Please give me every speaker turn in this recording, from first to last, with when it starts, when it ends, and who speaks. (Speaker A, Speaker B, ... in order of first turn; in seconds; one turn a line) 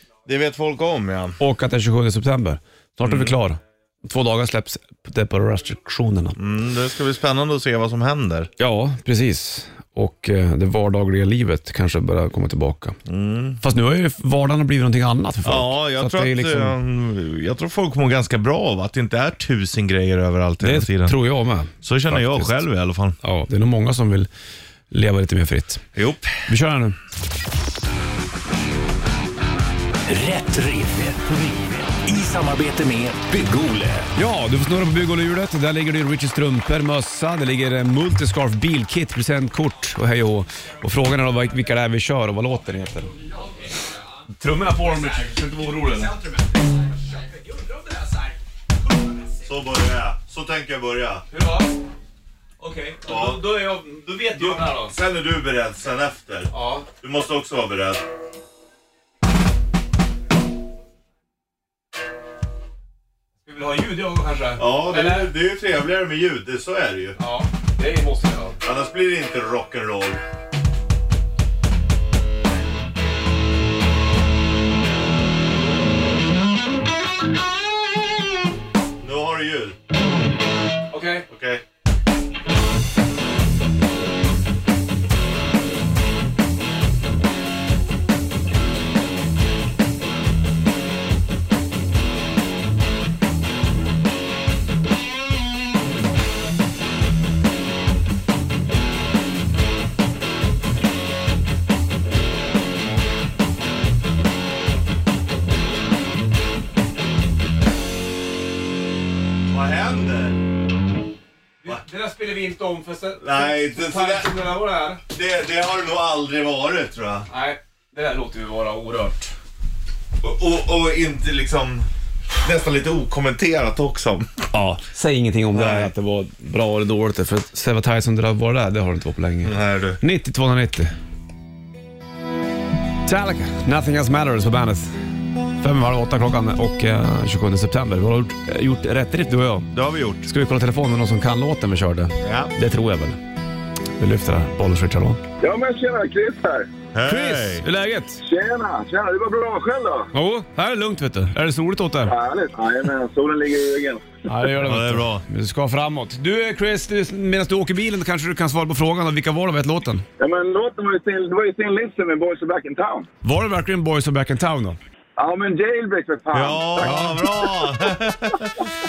Speaker A: 0.2-1.4
Speaker B: 1.4-6.4
Speaker A: 3.0-3.3
Speaker A: 6.4-8.5
Speaker B: 8.6-13.0
Speaker A: 13.1-13.6
Speaker B: 13.6-16.8
Speaker A: 15.4-21.2
Speaker B: 20.6-22.6
Speaker A: 21.8-23.2
Speaker B: 23.2-24.3
Speaker B: 24.9-25.8
Speaker A: 25.9-26.4
Speaker B: 26.5-26.9
Speaker C: 30.1-34.1
Speaker B: 34.1-43.1
Speaker B: 44.4-46.3
Speaker B: 47.9-48.1
Speaker A: 49.4-51.2
Speaker B: 51.3-51.7
Speaker B: 52.6-55.0
Speaker A: 53.0-53.5
Speaker A: 54.3-58.0
Speaker B: 56.5-56.9
Speaker B: 63.5-65.3
Speaker A: 64.6-67.2
Speaker B: 67.2-68.6
Speaker A: 68.6-70.2
Speaker A: 79.0-79.8
Speaker B: 80.9-81.3
Speaker A: 81.2-81.6
Speaker A: 109.5-110.4
Speaker B: 111.6-115.0
Speaker A: 113.2-114.4
Speaker A: 115.0-117.3
Speaker B: 117.3-119.3
Speaker A: 120.2-121.9
Speaker A: 122.4-124.5
Speaker B: 124.5-130.9
Speaker A: 125.5-125.9
Speaker A: 129.4-130.0
Speaker B: 133.0-135.0
Speaker B: 135.6-139.7
Speaker A: 139.7-140.3
Speaker B: 140.2-143.2
Speaker A: 142.2-142.5
Speaker B: 144.0-145.2
Speaker D: 145.4-146.7
Speaker A: 146.9-147.6
Speaker B: 147.0-148.2
Speaker D: 148.2-150.1
Speaker B: 150.1-152.1
Speaker D: 152.1-154.1
Speaker B: 154.3-160.0
Speaker A: 154.6-155.2
Speaker D: 160.2-163.1
Speaker B: 163.2-164.8
Speaker D: 165.2-167.3
Speaker A: 166.3-168.6
Speaker B: 166.8-167.3